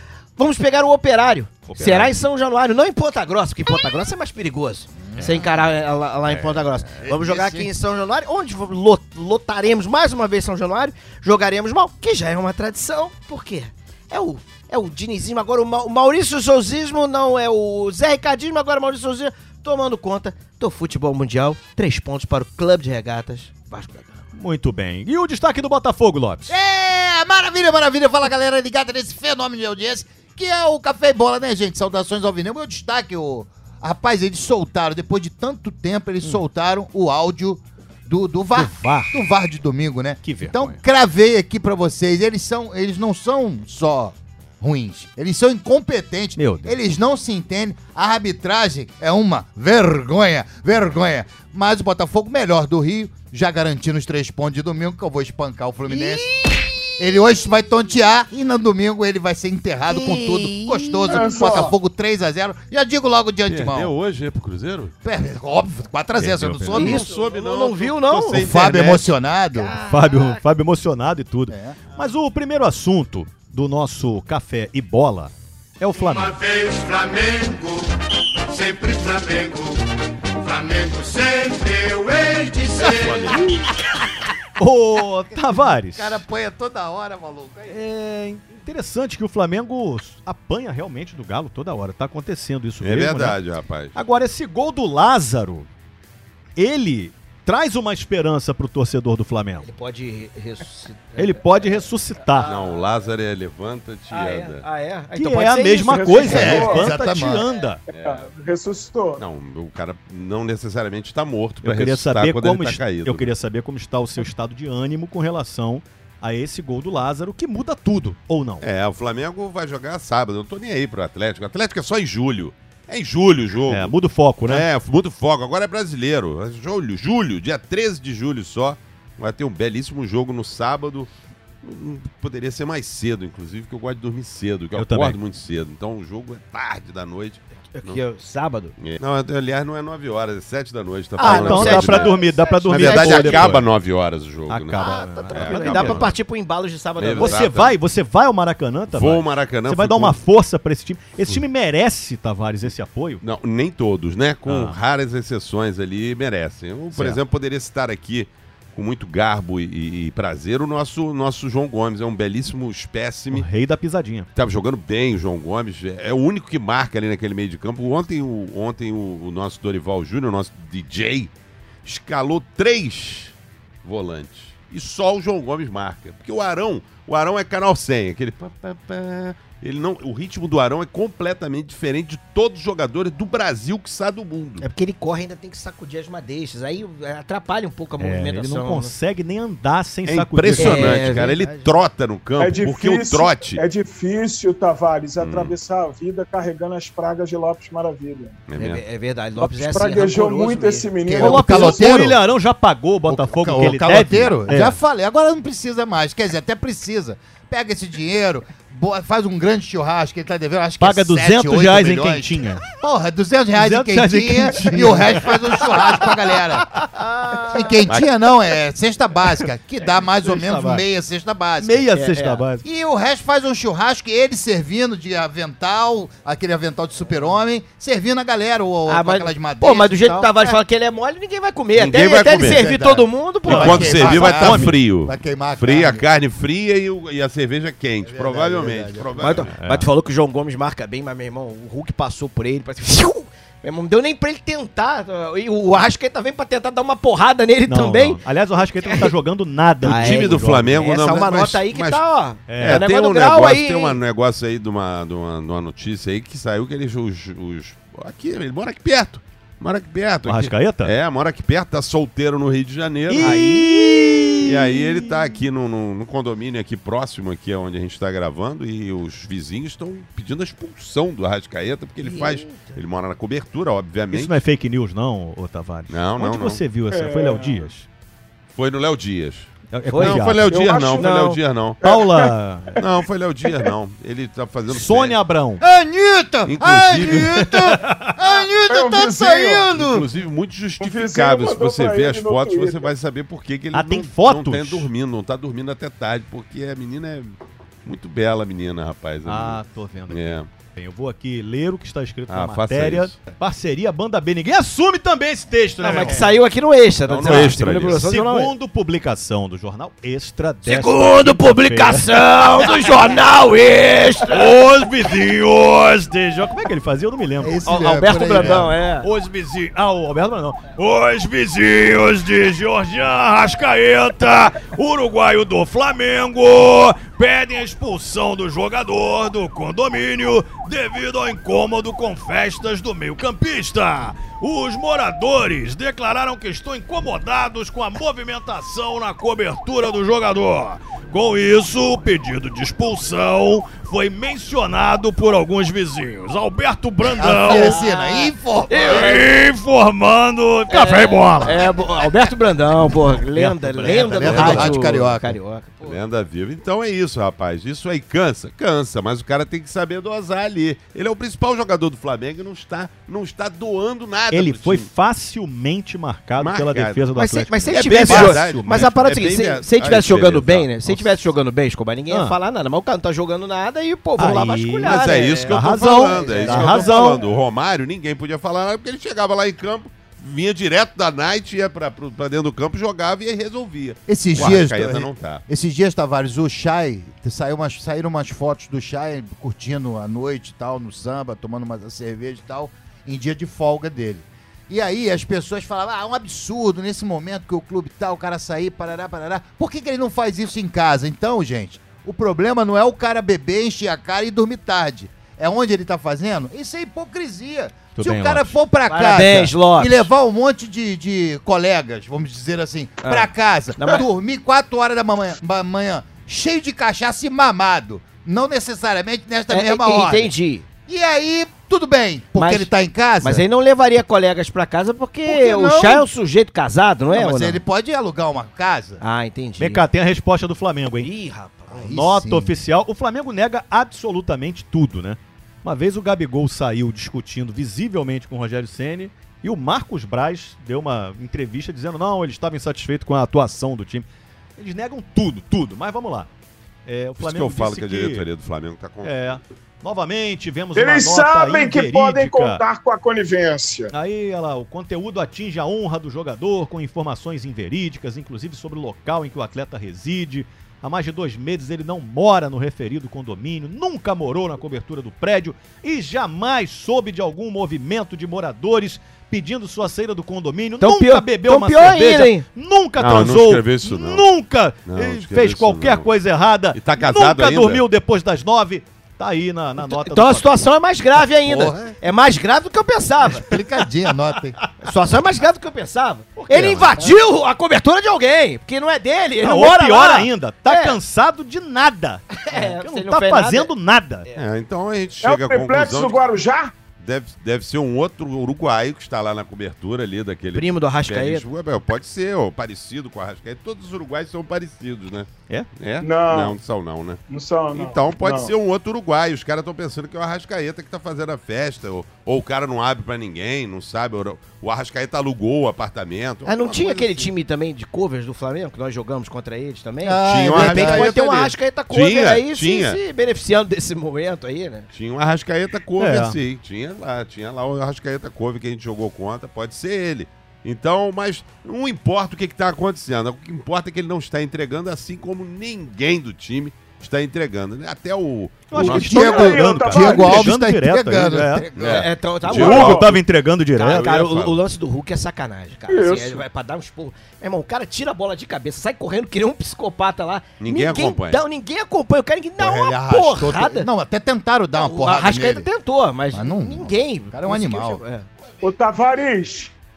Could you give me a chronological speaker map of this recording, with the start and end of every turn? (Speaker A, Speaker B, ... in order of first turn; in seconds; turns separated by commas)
Speaker A: 0.4-24.2, Speaker B: 1.7-2.2, Speaker C: 5.0-5.4, Speaker B: 5.2-5.4, Speaker B: 6.3-7.1, Speaker C: 7.0-7.7, Speaker B: 24.3-26.6, Speaker C: 26.5-63.9, Speaker B: 38.6-39.1, Speaker B: 40.2-40.8, Speaker B: 46.4-46.8, Speaker D: 61.1-61.7, Speaker E: 63.5-64.9, Speaker C: 65.0-67.1, Speaker B: 66.2-67.0, Speaker E: 66.7-69.1, Speaker A: 66.7-68.5, Speaker C: 68.3-69.7, Speaker A: 69.5-70.4, Speaker B: 69.9-76.4, Speaker C: 71.5-71.8, Speaker F: 76.0-83.3, Speaker E: 82.8-83.6, Speaker B: 84.6-86.2, Speaker C: 85.6-87.8, Speaker B: 87.7-93.4, Speaker E: 92.8-94.0, Speaker B: 93.9-95.7, Speaker B: 96.6-99.7, Speaker A: 99.6-102.8, Speaker B: 101.2-102.5, Speaker E: 102.4-104.6, Speaker A: 104.1-106.7, Speaker B: 105.1-107.8, Speaker D: 105.8-106.9, Speaker C: 106.2-107.5, Speaker D: 107.9-109.2, Speaker E: 107.9-108.3, Speaker E: 109.2-113.3, Speaker B: 111.6-118.7, Speaker E: 118.6-123.9, Speaker B: 123.7-124.7, Speaker E: 124.5-131.1, Speaker E: 131.6-138.0, Speaker B: 134.8-135.2, Speaker A: 137.8-138.8, Speaker E: 138.8-146.2, Speaker A: 141.2-143.6, Speaker B: 141.2-143.7, Speaker B: 144.5-146.1, Speaker A: 144.8-147.5, Speaker E: 147.0-147.8, Speaker B: 147.2-153.2, Speaker E: 148.9-150.2, Speaker E: 153.2-163.5, Speaker B: 154.5-154.8, Speaker B: 156.9-157.2, Speaker B: 163.3-164.3, Speaker E: 164.3-171.3, Speaker E: 171.8-184.7, Speaker A: 184.6-188.9, Speaker B: 188.0-191.2, Speaker E: 190.1-193.6, Speaker A: 190.6-191.7, Speaker D: 192.4-198.4, Speaker E: 195.2-195.6, Speaker E: 198.5-198.8, Speaker A: 198.6-200.9, Speaker D: 199.4-202.0, Speaker C: 201.0-202.2, Speaker B: 201.2-204.8, Speaker C: 203.1-217.0, Speaker B: 210.8-212.7, Speaker B: 213.6-217.8, Speaker C: 217.5-221.9, Speaker B: 220.1-220.8, Speaker B: 221.6-222.7, Speaker A: 221.9-222.4, Speaker C: 222.6-230.3, Speaker A: 228.9-234.3, Speaker B: 230.1-230.5, Speaker E: 231.8-232.7, Speaker C: 232.4-236.1, Speaker B: 233.5-234.7, Speaker E: 233.5-239.6, Speaker C: 238.0-239.5, Speaker A: 239.2-248.2, Speaker B: 239.6-239.9, Speaker B: 247.7-250.8, Speaker A: 248.8-249.1, Speaker E: 249.8-252.0, Speaker A: 249.8-254.0, Speaker B: 252.5-252.8, Speaker E: 252.6-263.5, Speaker B: 260.2-260.9, Speaker B: 263.1-264.9, Speaker A: 263.2-264.4, Speaker E: 264.4-274.4, Speaker A: 272.0-272.8, Speaker B: 274.1-277.9, Speaker E: 275.9-276.6, Speaker D: 276.9-277.7, Speaker E: 278.6-281.8, Speaker B: 279.7-280.5, Speaker A: 279.9-281.4, Speaker D: 280.5-281.2, Speaker D: 281.8-282.8, Speaker B: 281.8-282.8, Speaker E: 282.8-285.2, Speaker B: 284.7-285.6, Speaker C: 285.6-290.1, Speaker E: 286.4-287.5, Speaker B: 287.4-288.2, Speaker D: 288.7-289.7, Speaker E: 289.7-300.5, Speaker D: 290.8-292.9, Speaker B: 293.7-294.9, Speaker B: 299.2-306.3, Speaker E: 302.3-303.2, Speaker A: 305.8-308.5, Speaker E: 307.1-308.0, Speaker B: 307.2-313.1, Speaker A: 310.6-314.6, Speaker B: 314.3-317.7, Speaker C: 317.4-318.8, Speaker A: 317.7-319.1, Speaker B: 318.3-347.8, Speaker C: 347.0-349.1, Speaker A: 347.5-349.3, Speaker B: 348.8-351.6, Speaker A: 350.7-356.0, Speaker B: 353.3-354.8, Speaker C: 354.1-355.4, Speaker E: 354.3-354.7, Speaker E: 355.8-364.9, Speaker B: 364.3-368.9, Speaker E: 366.4-367.1, Speaker A: 367.1-377.2, Speaker E: 367.7-371.0, Speaker B: 372.1-372.4, Speaker B: 374.2-377.2, Speaker E: 374.8-385.4, Speaker C: 384.1-420.3, Speaker B: 407.9-408.6, Speaker A: 408.9-410.1, Speaker A: 413.0-414.1, Speaker A: 419.5-420.7, Speaker C: 420.9-423.4, Speaker A: 422.4-427.6, Speaker C: 425.3-426.1, Speaker C: 427.1-429.0, Speaker A: 429.0-429.8, Speaker B: 429.6-431.1, Speaker A: 431.0-431.9, Speaker C: 431.7-432.6, Speaker B: 431.9-444.1, Speaker B: 444.6-446.3, Speaker B: 446.9-448.3, Speaker E: 447.2-449.1, Speaker B: 449.0-452.6, Speaker D: 450.8-453.9, Speaker B: 453.9-480.5, Speaker A: 470.8-472.4, Speaker E: 473.0-474.3, Speaker E: 474.9-476.1, Speaker E: 476.7-477.8, Speaker A: 479.8-483.6, Speaker C: 481.4-481.9, Speaker C: 483.2-484.6, Speaker A: 484.8-491.0, Speaker B: 486.5-486.9, Speaker B: 489.4-494.3, Speaker A: 492.4-493.7, Speaker E: 494.4-496.2, Speaker D: 495.2-496.7, Speaker E: 497.0-517.3, Speaker A: 500.5-501.5, Speaker D: 506.0-506.6, Speaker D: 507.3-508.5, Speaker A: 516.5-524.9, Speaker C: 520.0-521.1, Speaker E: 520.3-523.0, Speaker E: 524.9-539.1, Speaker B: 526.0-526.4, Speaker B: 538.7-541.7, Speaker D: 538.8-540.5, Speaker C: 538.8-542.1, Speaker E: 541.8-543.2, Speaker A: 541.8-543.0, Speaker D: 542.5-543.1, Speaker B: 542.6-544.2, Speaker A: 543.8-553.9, Speaker E: 543.9-544.6, Speaker D: 545.9-546.4, Speaker E: 550.6-551.4, Speaker C: 552.6-555.7, Speaker A: 554.7-558.3, Speaker C: 556.3-558.0, Speaker D: 558.6-559.7